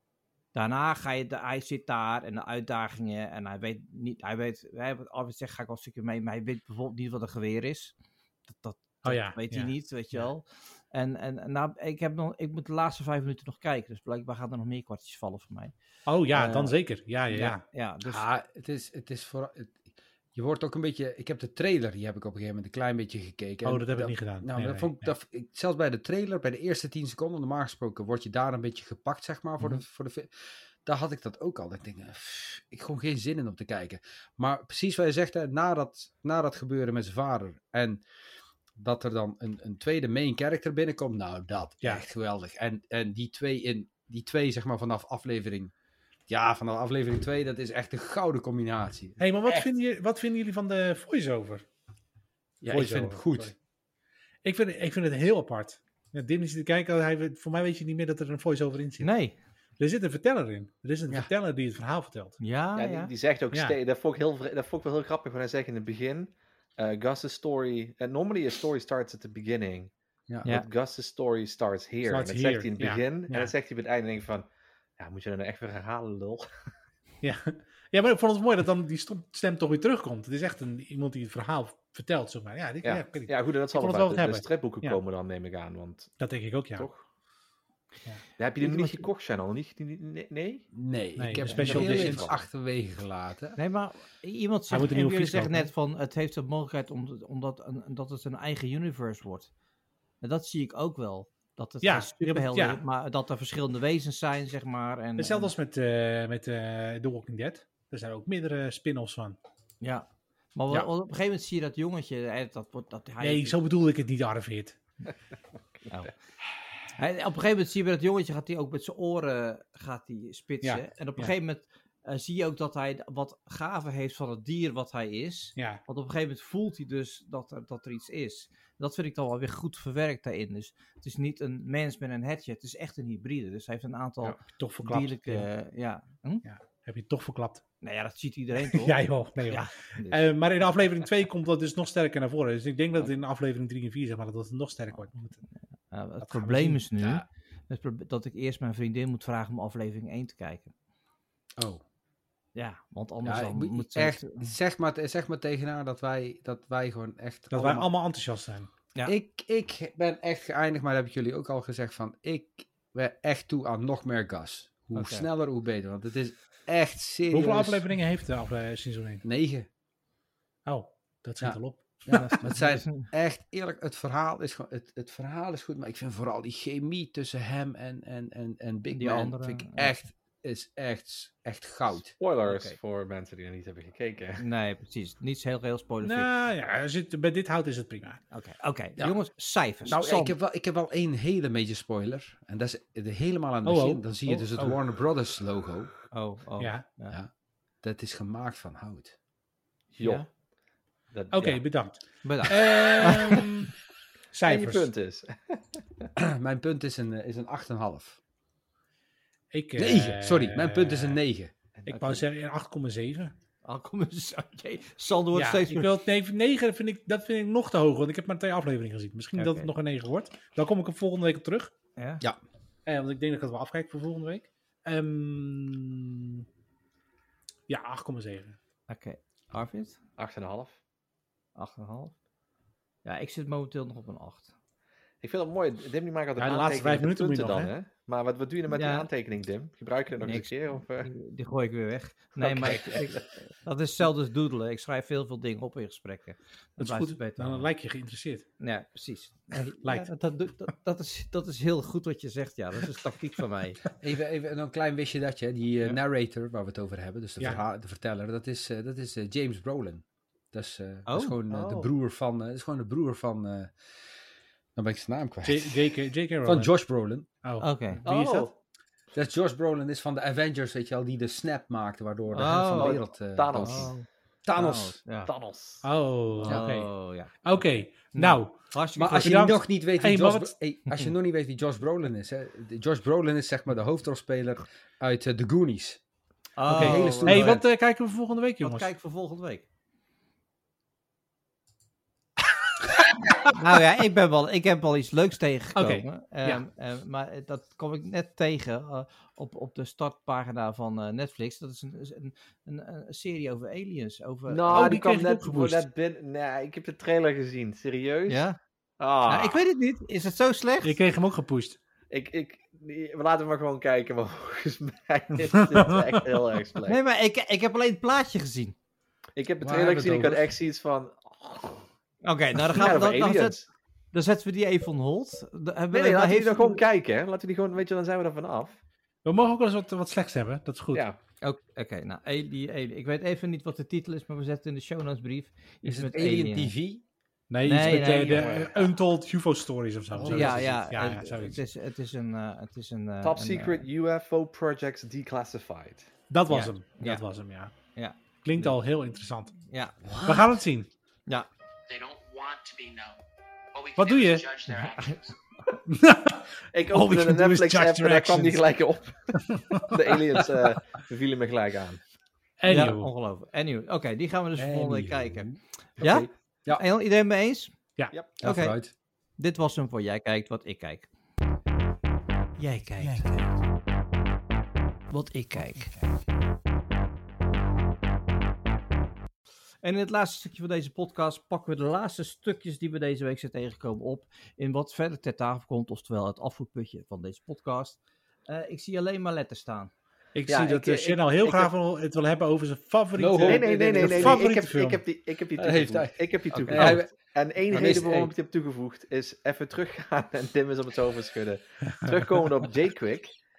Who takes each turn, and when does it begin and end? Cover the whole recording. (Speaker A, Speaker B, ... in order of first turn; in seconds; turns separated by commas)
Speaker A: 0.5-7.9, Speaker A: 8.5-15.7, Speaker B: 9.0-10.3, Speaker B: 16.1-17.6, Speaker A: 16.3-16.8, Speaker A: 17.3-18.3, Speaker C: 18.1-19.8, Speaker C: 20.4-38.0, Speaker B: 23.6-25.1, Speaker C: 38.8-45.7, Speaker C: 46.3-49.7, Speaker B: 49.2-51.6, Speaker C: 52.6-53.5, Speaker B: 52.7-53.5, Speaker B: 54.4-59.1, Speaker A: 59.0-59.4, Speaker B: 59.8-62.4, Speaker A: 62.4-63.1, Speaker D: 62.8-69.9, Speaker D: 70.4-74.5, Speaker B: 72.1-73.5, Speaker D: 75.0-76.5, Speaker B: 77.2-85.0, Speaker D: 82.8-86.2, Speaker B: 86.2-86.9, Speaker D: 86.8-87.0, Speaker D: 88.4-90.7, Speaker A: 88.6-89.0, Speaker C: 90.8-93.6, Speaker B: 91.2-92.3, Speaker A: 91.4-91.8, Speaker D: 91.6-92.3, Speaker A: 93.6-99.5, Speaker B: 94.7-95.7, Speaker A: 100.2-105.5, Speaker B: 101.8-102.8, Speaker B: 105.2-109.4, Speaker A: 109.8-113.6, Speaker B: 113.2-114.8, Speaker A: 117.0-136.4, Speaker B: 120.6-121.3, Speaker B: 125.6-125.8, Speaker B: 134.6-135.5, Speaker B: 136.4-137.6, Speaker A: 137.8-140.3, Speaker B: 138.7-145.4, Speaker A: 145.9-150.7, Speaker B: 146.2-146.8, Speaker C: 151.6-151.8, Speaker A: 152.6-154.5, Speaker C: 153.2-157.9, Speaker B: 157.5-158.7, Speaker C: 159.1-167.9, Speaker A: 164.9-165.3, Speaker B: 167.3-169.2, Speaker C: 169.2-169.7, Speaker B: 170.7-172.6, Speaker C: 171.4-182.1, Speaker A: 172.1-173.1, Speaker A: 178.9-179.9, Speaker D: 182.2-184.4, Speaker A: 182.4-182.8, Speaker A: 184.4-186.3, Speaker B: 186.0-188.2, Speaker A: 188.3-190.3, Speaker C: 189.8-195.9, Speaker B: 193.7-194.8, Speaker A: 196.1-197.2, Speaker B: 196.6-196.8, Speaker C: 197.8-199.2, Speaker D: 199.9-200.3, Speaker D: 201.1-201.6, Speaker B: 201.3-203.7, Speaker A: 202.2-203.5, Speaker B: 204.3-204.9, Speaker D: 204.4-206.1, Speaker C: 206.2-208.2, Speaker B: 209.5-211.2, Speaker C: 209.8-211.5, Speaker A: 211.9-212.2, Speaker B: 211.9-213.3, Speaker A: 213.6-215.9, Speaker B: 215.3-221.7, Speaker A: 219.4-219.7, Speaker A: 222.0-222.2, Speaker B: 222.9-226.4, Speaker B: 227.7-228.6, Speaker A: 228.9-230.0, Speaker D: 230.2-230.8, Speaker A: 231.6-232.1, Speaker A: 233.1-234.5, Speaker D: 235.2-241.1, Speaker B: 236.4-237.7, Speaker A: 238.7-239.1, Speaker A: 240.2-247.7, Speaker B: 242.4-242.7, Speaker D: 242.7-243.1, Speaker B: 246.8-248.5, Speaker A: 248.6-253.8, Speaker B: 249.8-250.1, Speaker C: 254.0-263.7, Speaker A: 261.1-261.4, Speaker D: 261.5-261.9, Speaker C: 264.8-267.3, Speaker B: 265.4-266.7, Speaker B: 267.4-268.5, Speaker A: 267.6-268.0, Speaker D: 268.0-268.5, Speaker C: 269.1-273.9, Speaker A: 272.3-273.0, Speaker D: 272.8-273.9, Speaker A: 273.6-275.3, Speaker C: 274.4-275.0, Speaker D: 275.3-275.9, Speaker B: 275.8-278.6, Speaker A: 276.4-279.4, Speaker C: 279.0-286.0, Speaker B: 279.1-280.6, Speaker A: 286.6-287.6, Speaker C: 286.7-287.6, Speaker B: 286.7-288.9, Speaker A: 288.6-289.6, Speaker A: 293.4-304.7, Speaker B: 295.8-296.6, Speaker D: 304.5-308.4, Speaker B: 304.7-305.9, Speaker A: 308.3-308.6, Speaker D: 309.0-309.6, Speaker A: 309.3-311.0, Speaker B: 310.8-311.8, Speaker D: 312.1-317.0, Speaker B: 315.7-316.2, Speaker A: 316.9-318.8, Speaker D: 319.4-321.9, Speaker C: 319.6-320.5, Speaker A: 322.2-323.6, Speaker D: 322.7-323.7, Speaker A: 324.1-326.8, Speaker D: 325.9-328.8, Speaker B: 329.2-331.0, Speaker D: 330.9-331.2, Speaker A: 331.4-336.7, Speaker C: 335.8-337.1, Speaker B: 337.5-341.6, Speaker A: 337.6-338.9, Speaker C: 337.8-338.5, Speaker D: 338.3-338.8, Speaker C: 340.2-340.8, Speaker A: 340.3-343.8, Speaker D: 343.2-346.1, Speaker B: 346.3-347.7, Speaker A: 346.5-347.2, Speaker A: 347.9-348.8, Speaker B: 348.4-349.5, Speaker A: 349.7-350.0, Speaker C: 350.0-350.5, Speaker B: 350.2-350.9, Speaker E: 351.9-353.2, Speaker E: 353.7-355.4, Speaker B: 354.0-354.5, Speaker A: 354.7-355.2, Speaker B: 355.9-358.6, Speaker D: 356.7-362.0, Speaker B: 359.4-360.0, Speaker B: 362.6-363.1, Speaker A: 362.7-367.7, Speaker C: 364.6-365.6, Speaker D: 366.0-366.3, Speaker C: 368.4-368.9, Speaker A: 368.4-368.8, Speaker A: 369.4-371.1, Speaker A: 372.6-373.3, Speaker B: 373.0-373.5, Speaker A: 375.1-375.9, Speaker A: 379.8-389.9, Speaker B: 390.4-395.0, Speaker D: 390.5-391.7, Speaker C: 393.2-394.4, Speaker D: 393.4-403.3, Speaker C: 395.6-396.2, Speaker A: 396.5-397.0, Speaker C: 396.7-397.1, Speaker C: 397.7-398.3, Speaker A: 397.7-398.0